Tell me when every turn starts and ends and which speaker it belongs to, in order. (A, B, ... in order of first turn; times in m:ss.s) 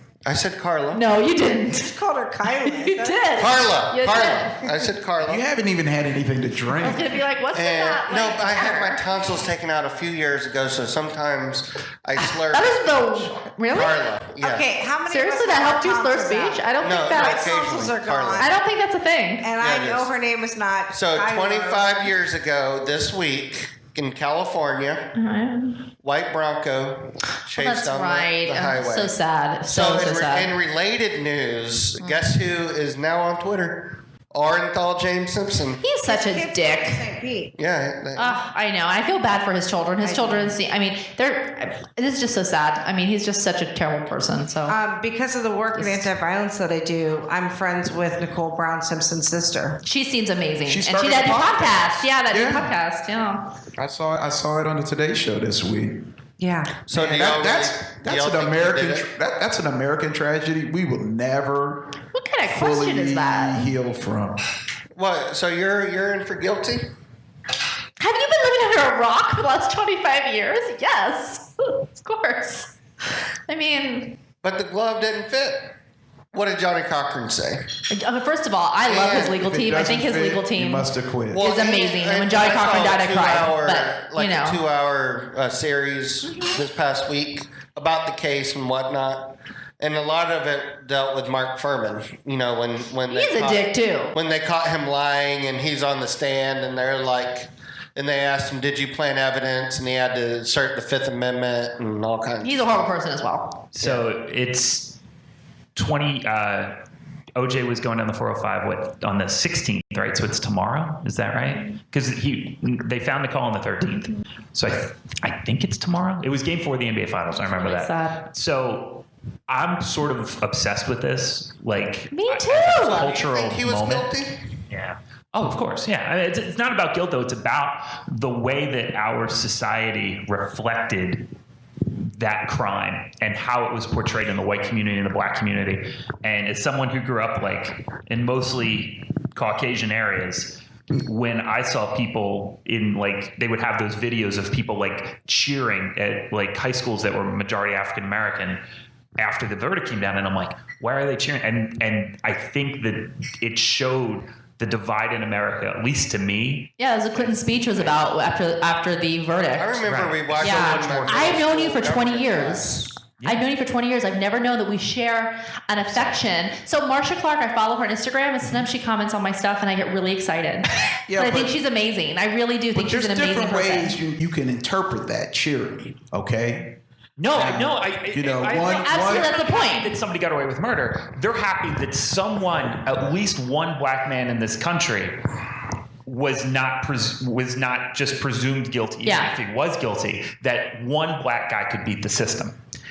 0:00.2-0:01.0 A
0:00.9-0:02.0 B
0:01.7-0:03.3 C
0:02.5-0:04.8 B
0:03.4-0:05.4 A
0:05.2-0:07.1 D
0:06.7-0:09.0 B
0:07.5-0:14.7 A
0:12.2-0:14.0 B
0:14.4-0:18.5 C
0:15.0-0:17.5 B
0:16.8-0:18.5 A
0:18.4-0:19.5 B
0:19.4-0:22.1 C
0:19.6-0:20.1 A
0:20.9-0:25.0 A
0:25.1-0:25.8 B
0:26.0-0:29.1 A
0:27.4-0:30.5 B
0:29.7-0:35.8 A
0:32.0-0:32.3 B
0:35.8-0:37.0 B
0:36.0-0:37.5 C
0:37.6-0:38.3 A
0:38.2-0:44.8 B
0:40.0-0:40.5 C
0:44.6-0:49.8 C
0:45.7-0:46.1 B
0:49.8-0:53.5 B
0:50.6-0:52.7 D
0:53.8-0:56.0 D
0:56.4-0:56.8 C
0:56.9-0:59.1 A
0:56.9-1:04.4 D
1:02.1-1:03.7 B
1:05.0-1:06.8 A
1:08.0-1:12.7 B
1:13.5-1:14.2 B
1:14.4-1:15.7 A
1:16.3-1:17.6 A
1:17.9-1:20.9 B
1:18.8-1:19.3 A
1:19.3-1:21.4 D
1:21.3-1:42.8 A
1:21.4-1:24.6 B
1:33.1-1:34.1 B
1:42.4-1:43.6 B
1:43.7-1:45.0 E
1:45.8-1:46.7 E
1:47.4-2:04.1 E
1:57.5-1:58.3 B
2:02.1-2:03.2 B
2:03.0-2:04.4 A
2:04.7-2:11.3 E
2:12.0-2:28.6 E
2:29.2-2:38.0 E
2:36.8-2:39.8 B
2:39.6-2:42.9 A
2:39.8-2:41.4 E
2:40.4-2:54.0 B
2:45.8-2:46.2 E
2:51.1-2:51.5 D
2:52.7-2:56.8 D
2:57.2-3:05.2 E
2:57.3-2:59.3 D
2:58.7-3:00.0 B
3:06.0-3:12.5 E
3:09.0-3:09.3 B